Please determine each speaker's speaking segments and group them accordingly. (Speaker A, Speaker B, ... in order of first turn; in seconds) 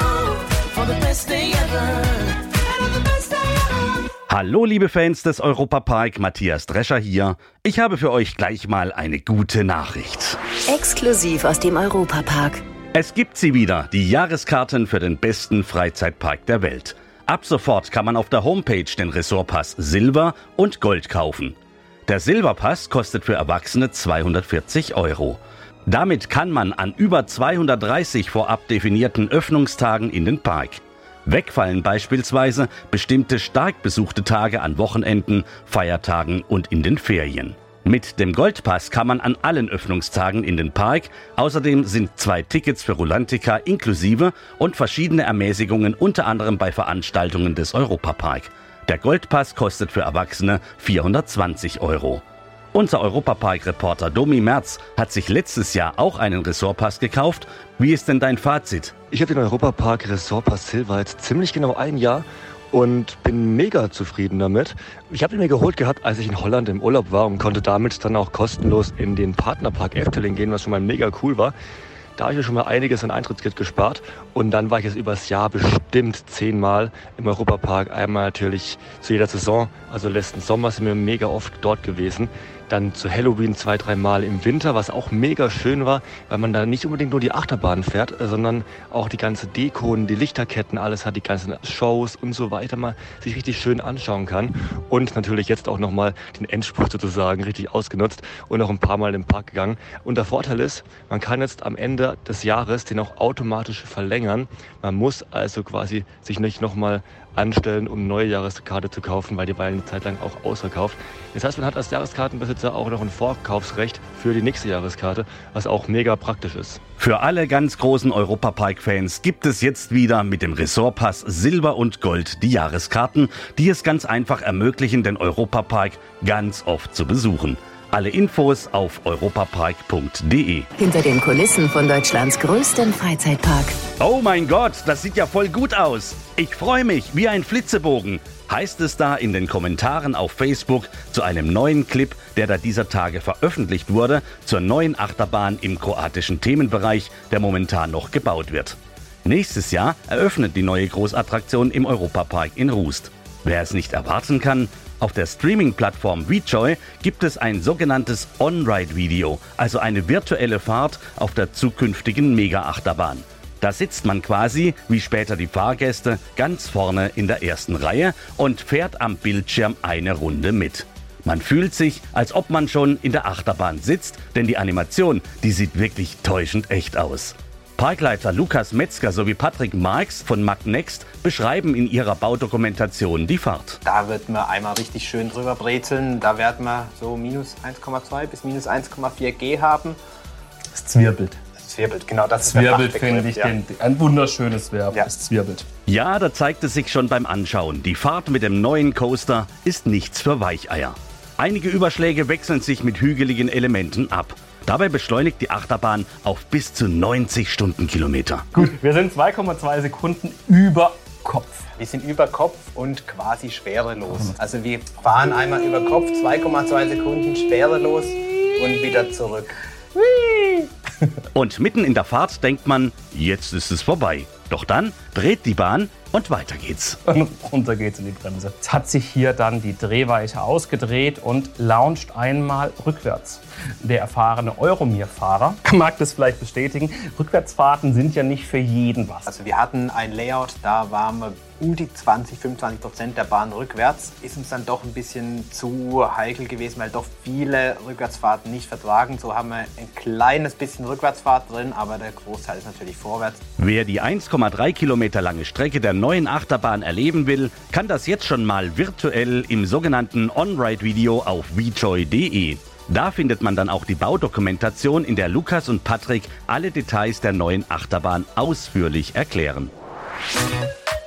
Speaker A: 0.8-1.7, 10.7-12.6, 130.8-133.8
Speaker B: 4.3-10.4, 12.9-21.6, 22.1-58.9, 117.0-130.7, 134.0-183.8, 195.9-208.5, 221.3-227.0, 253.6-269.7
Speaker C: 59.1-71.5, 72.2-116.8
Speaker D: 183.8-190.0, 191.6-193.5, 211.8-219.5, 239.3-253.4
Speaker E: 190.7-191.4, 192.5-195.7, 208.5-211.7, 220.2-220.5, 227.1-239.3